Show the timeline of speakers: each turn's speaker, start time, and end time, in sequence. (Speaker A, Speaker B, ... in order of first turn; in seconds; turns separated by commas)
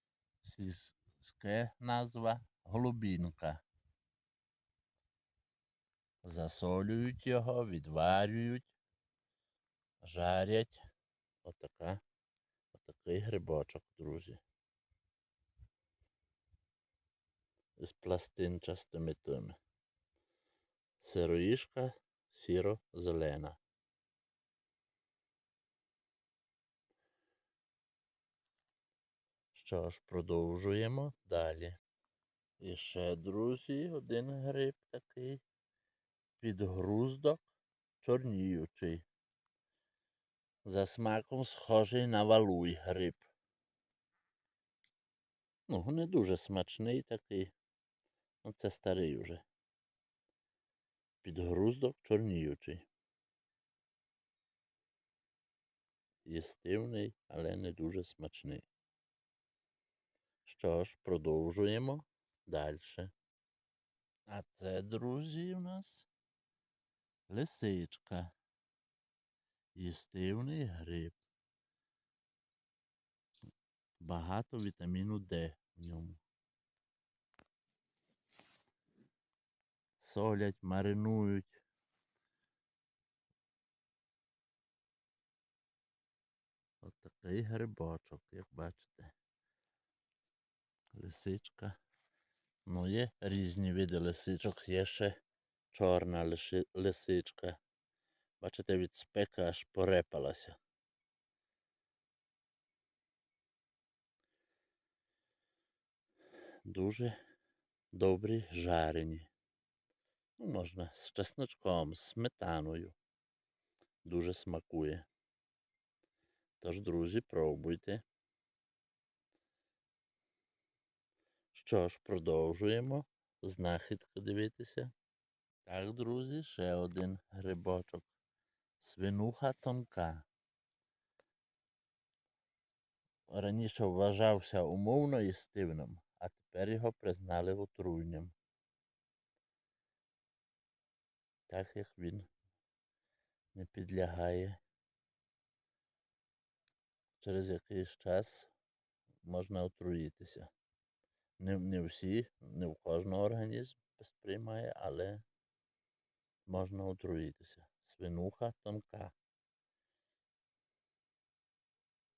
Speaker A: 0.4-3.6, Speaker A: 6.2-8.7, Speaker A: 10.0-10.8, Speaker A: 11.4-12.0, Speaker A: 12.7-14.4, Speaker A: 17.8-19.6, Speaker A: 21.0-23.6, Speaker A: 29.5-31.8, Speaker A: 32.6-35.4, Speaker A: 36.4-37.5, Speaker A: 38.0-39.0, Speaker A: 40.7-43.2, Speaker A: 45.7-47.5, Speaker A: 48.4-49.4, Speaker A: 51.2-52.9, Speaker A: 56.2-58.7, Speaker A: 60.5-63.1, Speaker A: 64.3-66.1, Speaker A: 67.3-68.3, Speaker A: 69.8-71.2, Speaker A: 74.0-76.2, Speaker A: 80.0-81.6, Speaker A: 86.8-89.1, Speaker A: 90.9-91.8, Speaker A: 92.7-95.1, Speaker A: 95.7-97.6, Speaker A: 98.4-100.6, Speaker A: 106.7-107.2, Speaker A: 107.9-109.3, Speaker A: 110.4-113.0, Speaker A: 114.0-115.0, Speaker A: 116.6-118.0, Speaker A: 121.5-124.9, Speaker A: 125.7-128.1, Speaker A: 128.8-130.2, Speaker A: 133.3-138.3, Speaker A: 141.5-142.3, Speaker A: 143.6-144.6, Speaker A: 147.2-148.5, Speaker A: 149.2-150.5, Speaker A: 151.4-155.2, Speaker A: 156.5-159.1